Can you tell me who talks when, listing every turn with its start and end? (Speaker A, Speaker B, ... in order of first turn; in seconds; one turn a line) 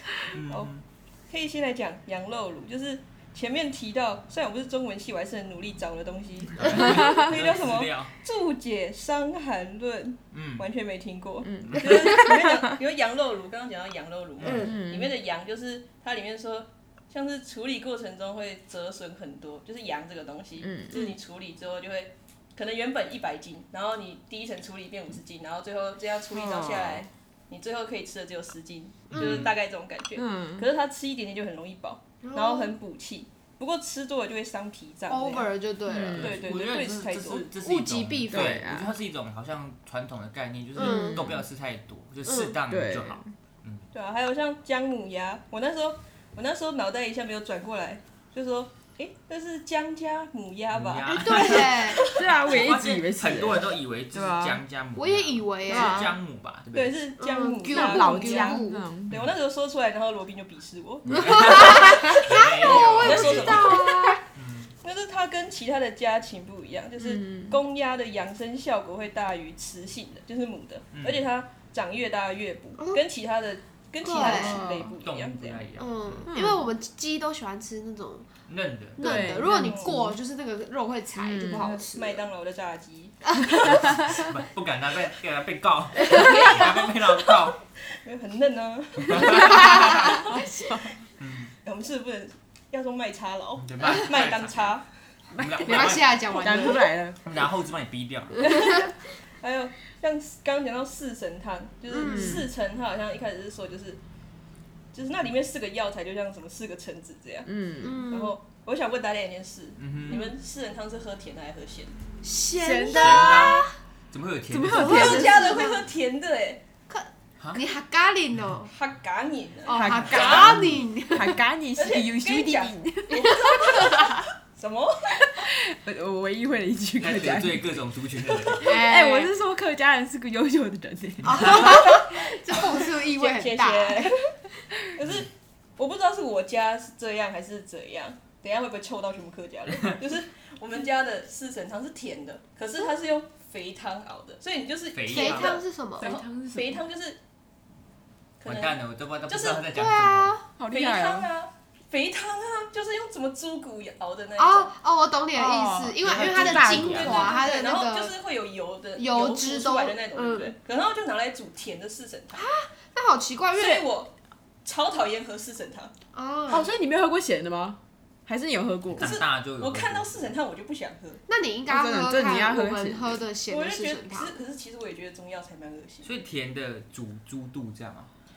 Speaker A: 0.3-0.8
Speaker B: 1.3-35.5
Speaker A: 6.6-8.1
Speaker A: 10.3-10.6
Speaker C: 11.4-12.8
Speaker A: 14.4-14.7
Speaker D: 14.4-14.7
Speaker C: 14.6-15.2
Speaker C: 20.6-21.1
Speaker C: 26.3-27.1
Speaker A: 29.1-29.5
Speaker C: 30.1-30.7
Speaker D: 32.2-32.8
Speaker D: 35.1-36.4
Speaker C: 35.9-36.4
Speaker B: 36.2-37.5
Speaker A: 36.2-43.9
Speaker D: 37.6-38.6
Speaker C: 38.3-38.9
Speaker D: 40.8-41.2
Speaker C: 40.8-41.4
Speaker D: 42.2-42.5
Speaker C: 42.7-43.3
Speaker B: 43.9-52.3
Speaker A: 50.7-57.0
Speaker D: 51.1-52.0
Speaker C: 52.1-54.6
Speaker D: 55.0-56.1
Speaker C: 55.7-56.1
Speaker B: 56.7-63.9
Speaker D: 57.2-58.8
Speaker C: 57.6-59.1
Speaker A: 59.1-59.4
Speaker A: 61.0-63.8
Speaker D: 61.1-64.2
Speaker A: 64.3-64.7
Speaker B: 64.8-75.7
Speaker C: 67.0-67.6
Speaker A: 70.9-71.3
Speaker D: 74.0-74.6
Speaker C: 74.2-75.0
Speaker A: 75.0-76.3
Speaker D: 75.8-78.3
Speaker C: 76.3-76.7
Speaker A: 78.5-79.0
Speaker D: 79.0-82.2
Speaker C: 79.0-80.2
Speaker B: 79.4-80.0
Speaker C: 81.2-81.8
Speaker B: 81.9-83.3
Speaker A: 83.7-87.6
Speaker B: 86.1-90.4
Speaker A: 89.0-90.1
Speaker C: 89.3-90.9
Speaker A: 91.2-91.5
Speaker B: 91.6-94.9
Speaker A: 93.6-94.8
Speaker A: 95.3-96.7
Speaker C: 95.4-97.2
Speaker D: 95.6-97.0
Speaker A: 97.2-98.5
Speaker B: 98.4-104.0
Speaker D: 101.9-102.4
Speaker C: 102.0-102.5
Speaker B: 104.9-112.0
Speaker C: 107.4-108.0
Speaker D: 107.8-108.4
Speaker A: 109.8-110.2
Speaker D: 112.2-113.7
Speaker C: 112.5-113.6
Speaker A: 112.9-115.2
Speaker C: 114.5-115.7
Speaker D: 114.7-115.8
Speaker B: 114.8-116.6
Speaker D: 116.9-118.7
Speaker B: 118.7-120.5
Speaker D: 119.7-121.4
Speaker C: 119.7-124.2
Speaker A: 120.0-120.8
Speaker B: 121.8-124.0
Speaker D: 123.4-124.0
Speaker B: 124.5-125.2
Speaker C: 125.2-127.8
Speaker A: 127.0-128.7
Speaker D: 128.6-129.3
Speaker C: 128.6-132.1
Speaker D: 131.2-134.1
Speaker A: 131.2-131.7
Speaker B: 133.1-134.3
Speaker B: 134.9-147.2
Speaker A: 144.9-145.6
Speaker D: 145.1-146.1
Speaker C: 146.0-146.8
Speaker B: 148.4-149.7
Speaker A: 148.4-150.4
Speaker D: 149.7-150.5
Speaker C: 150.6-151.3
Speaker B: 150.7-154.7
Speaker D: 154.4-158.1
Speaker C: 155.3-157.4
Speaker A: 156.0-157.3
Speaker B: 156.6-162.5
Speaker D: 159.0-160.5
Speaker D: 162.3-163.9
Speaker B: 163.5-164.1
Speaker B: 164.6-165.9
Speaker D: 166.1-166.7
Speaker C: 166.5-169.2
Speaker A: 168.9-170.3
Speaker B: 169.0-171.2
Speaker D: 171.3-174.3
Speaker C: 171.7-173.2
Speaker B: 173.5-176.1
Speaker A: 176.0-178.1